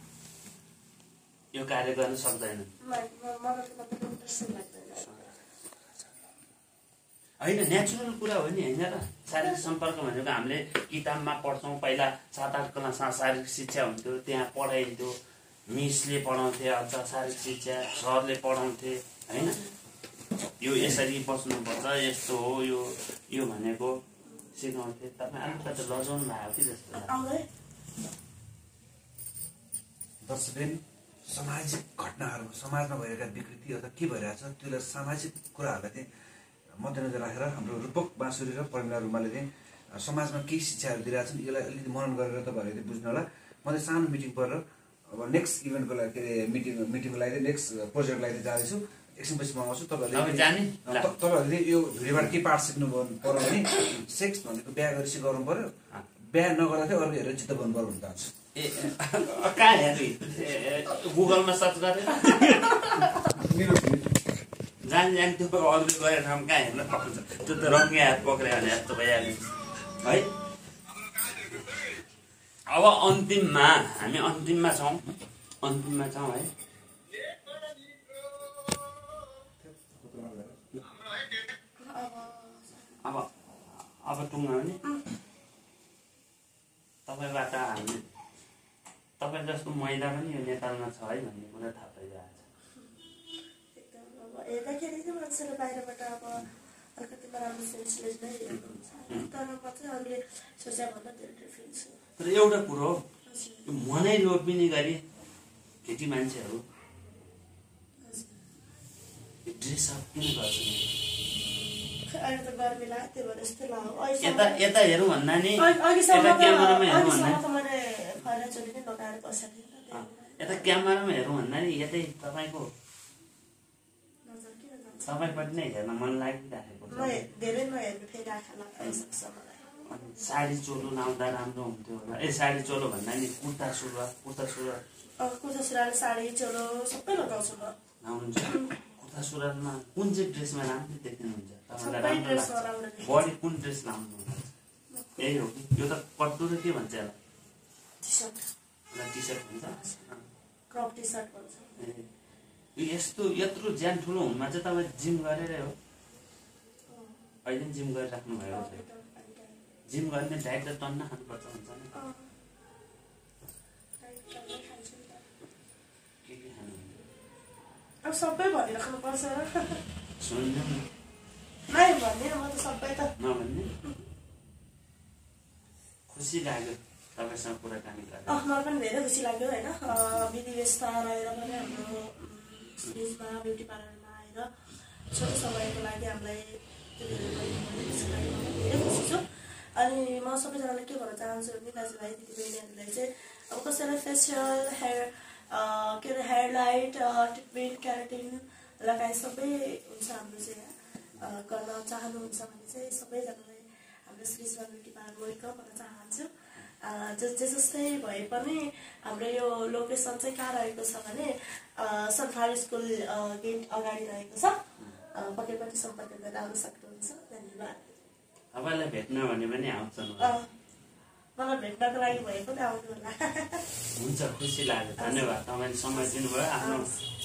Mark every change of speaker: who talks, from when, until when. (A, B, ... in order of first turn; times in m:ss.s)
0:01.5-0:02.7 A
0:02.8-0:05.3 B
0:07.4-0:15.2 A
0:15.7-0:19.6 A
0:19.3-0:19.7 B
0:20.6-0:24.0 A
0:24.5-0:27.1 A
0:26.9-0:27.4 B
0:30.2-0:36.0 C
0:36.7-0:58.3 C
0:50.1-0:51.1 A
0:58.5-1:03.1 A
1:03.3-1:04.1 C
1:04.8-1:10.3 A
1:12.7-1:15.0 A
1:15.6-1:16.5 A
1:19.6-1:20.8 C
1:21.8-1:22.8 B
1:23.9-1:24.8 A
1:27.1-1:28.0 A
1:29.2-1:32.4 A
1:33.7-1:36.4 B
1:37.0-1:42.0 B
1:42.2-1:43.0 A
1:43.2-1:43.7 B
1:43.6-1:45.0 A
1:45.8-1:46.6 A
1:48.0-1:48.4 B
1:49.4-1:50.9 A
1:52.0-1:54.6 B
1:54.2-1:57.4 A
1:55.6-2:00.8 B
1:59.9-2:02.7 A
2:04.2-2:05.4 B
2:05.0-2:07.3 A
2:06.9-2:09.8 B
2:09.9-2:14.8 A
2:15.2-2:17.8 B
2:18.0-2:24.5 A
2:21.8-2:23.3 B
2:24.9-2:25.3 B
2:25.2-2:27.2 A
2:28.0-2:28.5 B
2:28.9-2:30.2 A
2:29.7-2:30.0 B
2:30.7-2:31.7 B
2:31.8-2:32.1 A
2:32.8-2:35.7 A
2:36.9-2:37.2 B
2:37.4-2:38.8 A
2:38.5-2:39.6 B
2:39.9-2:41.9 A
2:41.9-2:42.3 B
2:44.0-2:45.2 B
2:46.2-2:47.0 A
2:48.0-2:49.8 B
2:50.2-2:50.9 A
2:51.7-2:53.1 B
2:53.2-2:53.7 A
2:56.1-2:58.4 A
2:58.3-3:04.5 B
3:05.1-3:09.2 B
3:09.7-3:34.6 B
3:35.1-3:37.8 B
3:38.5-3:40.4 A
3:40.2-3:40.5 B
3:41.4-3:43.6 B
3:44.0-3:46.9 A
3:45.0-3:45.4 B
3:45.9-3:47.0 B